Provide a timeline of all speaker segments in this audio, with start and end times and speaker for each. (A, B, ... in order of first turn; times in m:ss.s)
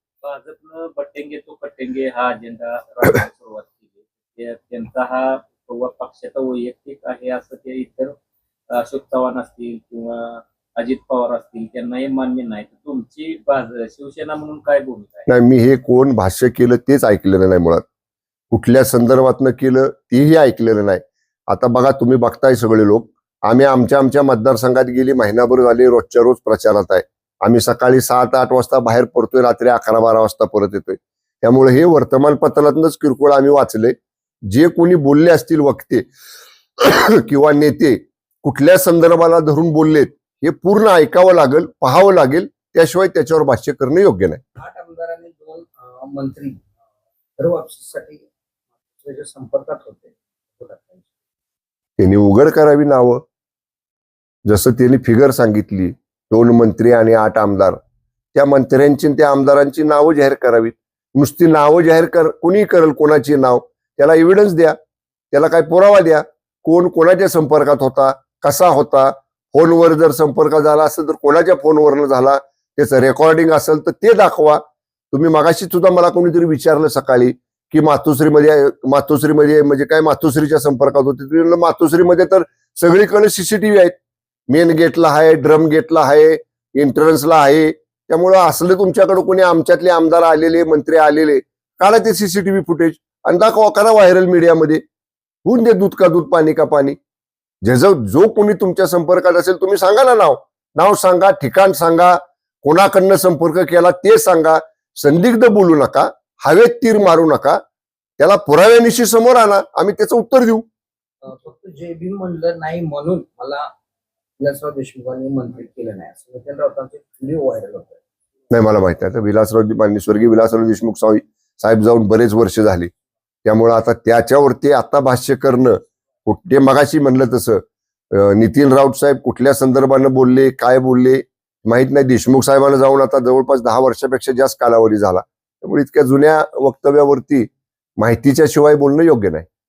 0:00.2-0:08.1 A
0:08.7-0:15.3 A
0:15.3-0:17.8 B
0:18.5-0:33.9 B
0:34.5-0:36.1 B
0:36.8-0:44.4 B
0:44.6-0:46.6 C
0:47.4-0:48.3 C
0:49.0-0:51.1 C
0:52.0-0:53.2 B
0:54.5-0:57.8 B
0:58.3-1:04.8 B
1:05.3-1:23.9 B
1:24.5-1:34.8 B
1:35.4-1:37.0 B
1:37.6-1:47.6 B
1:48.2-1:50.6 B
1:51.2-1:53.7 C
1:54.4-1:58.0 C
1:58.5-2:02.9 B
2:03.4-2:19.5 B